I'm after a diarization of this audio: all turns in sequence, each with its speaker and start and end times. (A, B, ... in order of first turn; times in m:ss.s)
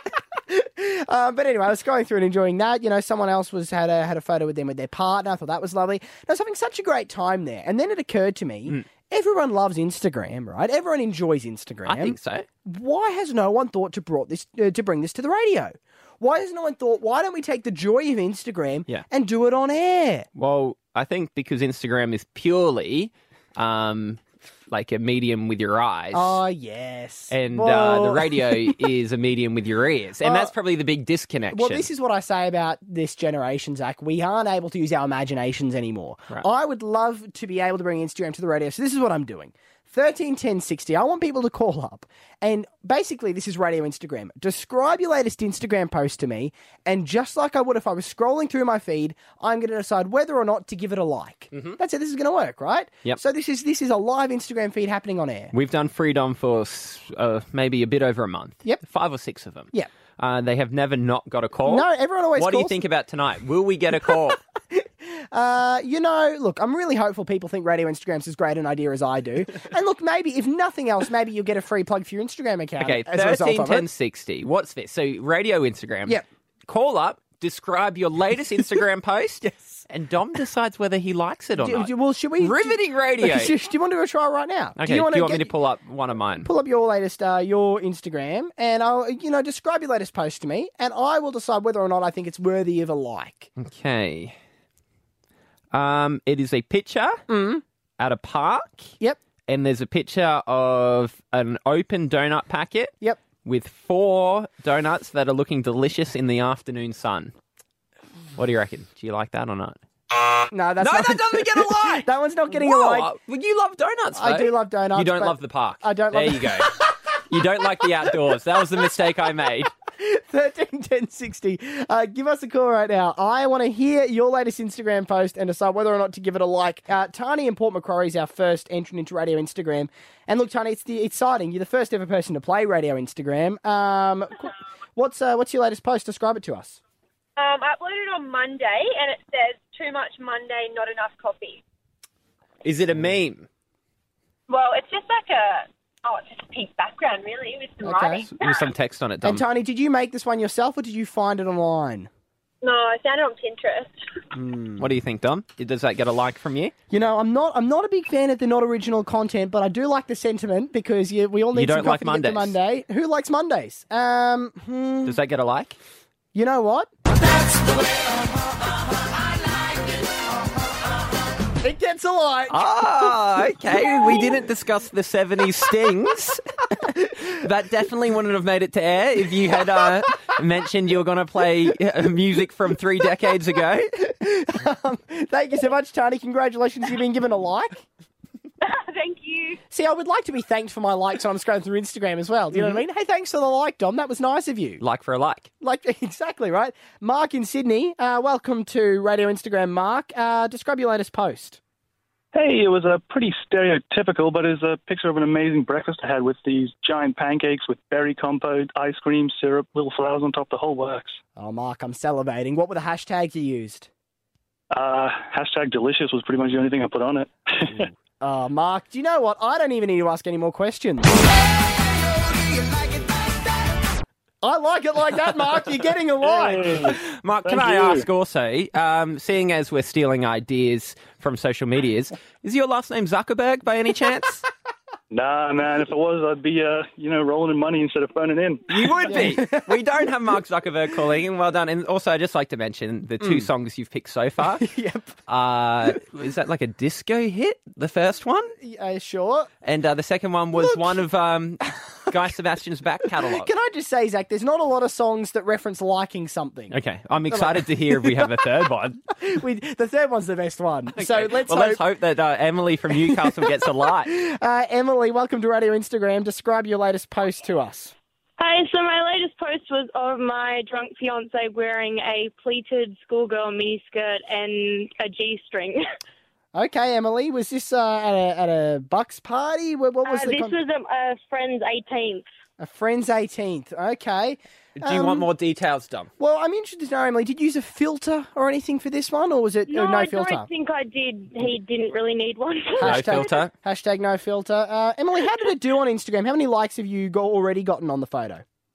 0:00.5-0:20.3 A
0:11.9-0:12.5 B
0:20.4-0:26.4 B
0:26.1-0:28.8 A
0:27.3-0:31.9 B
0:30.2-0:30.5 A
0:31.5-0:55.5 A
0:51.5-0:51.8 B
0:55.5-1:04.4 B
1:01.6-1:02.8 A
1:04.7-1:13.9 A
1:12.8-1:23.5 B
1:19.4-1:19.8 A
1:21.6-1:25.5 A
1:24.8-1:26.5 B
1:26.4-1:33.5 A
1:33.6-1:34.4 B
1:35.7-1:37.2 B
1:37.3-1:37.6 A
1:38.0-1:38.9 B
1:39.5-1:47.3 B
1:48.4-1:49.8 B
1:50.5-1:53.1 A
1:50.8-1:59.7 B
1:54.2-1:56.7 A
2:00.0-2:16.8 A
2:17.4-2:21.6 C
2:22.6-2:23.5 B
2:24.5-2:28.7 C
2:27.8-2:28.3 A
2:28.3-2:29.4 B
2:29.2-2:32.1 A
2:32.6-2:33.9 C
2:34.3-2:34.9 A
2:34.8-2:36.7 B
2:36.9-2:45.2 A
2:41.5-2:42.6 B
2:45.0-2:45.8 B
2:46.3-2:46.9 A
2:51.6-2:53.1 A
2:52.5-3:03.9 B
3:04.0-3:07.8 A
3:08.6-3:09.6 C
3:09.7-3:14.8 A
3:12.5-3:12.8 B
3:14.8-3:15.5 B
3:15.6-3:21.6 A
3:22.3-3:31.2 D
3:31.4-3:33.9 A
3:34.7-3:37.9 D
3:38.2-3:41.2 A
3:44.4-3:47.0 A
3:46.7-3:54.4 B
3:47.5-3:48.0 D
3:55.1-3:59.1 D
3:58.7-4:04.7 B
3:59.1-3:59.7 A
4:03.2-4:03.5 A
4:04.6-4:05.1 A
4:05.3-4:08.6 B
4:08.6-4:09.5 A
4:09.6-4:13.5 B
4:10.6-4:11.0 A
4:13.2-4:16.8 A
4:16.7-4:19.0 B
4:17.3-4:18.4 A
4:19.2-4:21.8 A
4:21.0-4:24.1 B
4:23.0-4:27.9 A
4:28.4-4:35.8 E
4:36.5-4:40.6 A
4:40.1-4:42.2 E
4:42.6-4:45.3 A
4:44.8-4:46.1 B
4:46.2-4:50.5 A
4:49.7-4:53.3 E
4:52.8-4:58.4 A
4:52.8-4:53.5 B